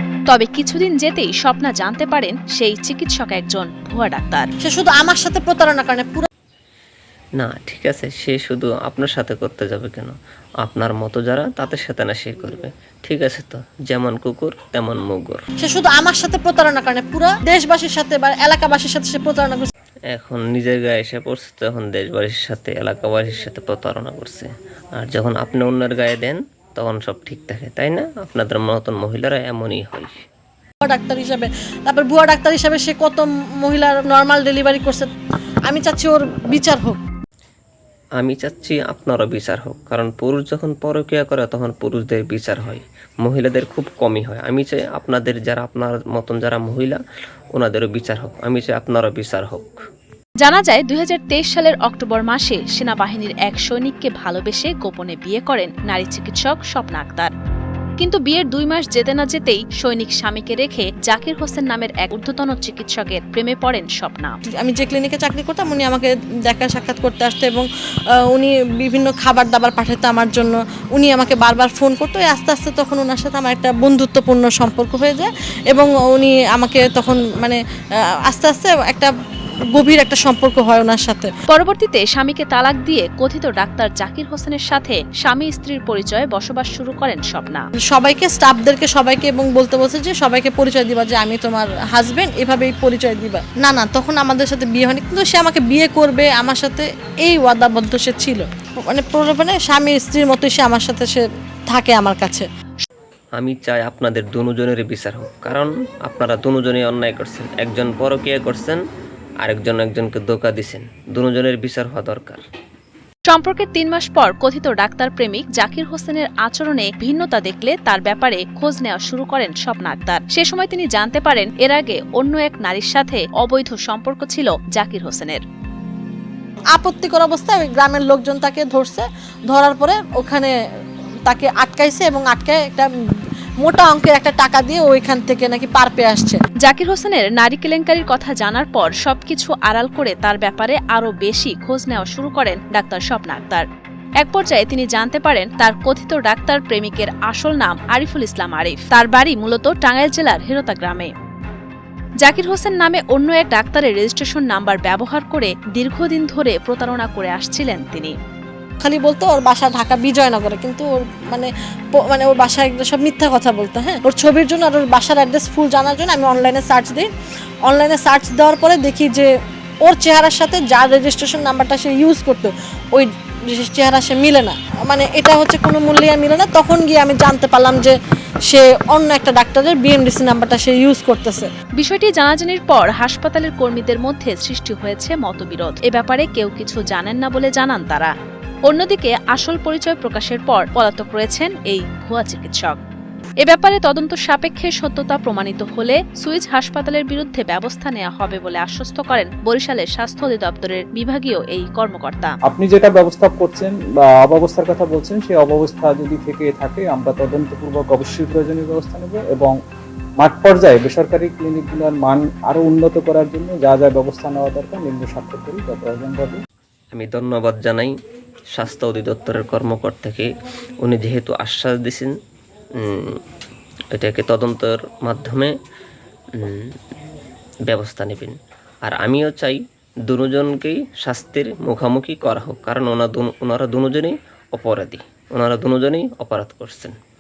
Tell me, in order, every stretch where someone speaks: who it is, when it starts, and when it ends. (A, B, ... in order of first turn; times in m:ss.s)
0:00.3-0:04.5 A
0:04.6-0:06.3 B
0:07.4-0:15.4 C
0:15.6-0:19.7 B
0:20.1-0:30.2 C
0:30.8-0:35.1 B
0:35.7-0:37.0 B
0:38.2-0:47.0 C
0:47.6-0:49.8 C
0:50.4-0:57.3 A
0:58.0-1:04.4 A
1:04.6-1:07.7 B
1:08.3-1:17.6 B
1:18.3-1:19.1 B
1:19.8-1:21.3 B
1:21.5-1:27.7 A
1:27.9-1:42.4 B
1:43.4-1:48.8 C
1:49.4-1:52.4 C
1:53.3-2:05.4 A
2:06.8-2:10.5 B
2:11.3-2:12.9 B
2:13.6-2:16.4 B
2:16.6-2:23.7 A
2:24.2-2:31.1 A
2:32.2-2:38.2 A
2:38.8-2:47.1 B
2:47.7-2:49.3 B
2:49.8-2:58.0 B
2:58.5-3:01.5 B
3:01.8-3:08.1 A
3:08.7-3:12.8 A
3:13.4-3:22.3 A
3:22.5-3:29.6 D
3:30.2-3:36.4 D
3:36.9-3:37.9 C
3:38.6-3:40.3 C
3:40.8-3:42.1 C
3:42.8-3:43.2 C
3:43.9-3:45.5 C
3:46.3-3:46.8 C
3:47.7-3:57.0 C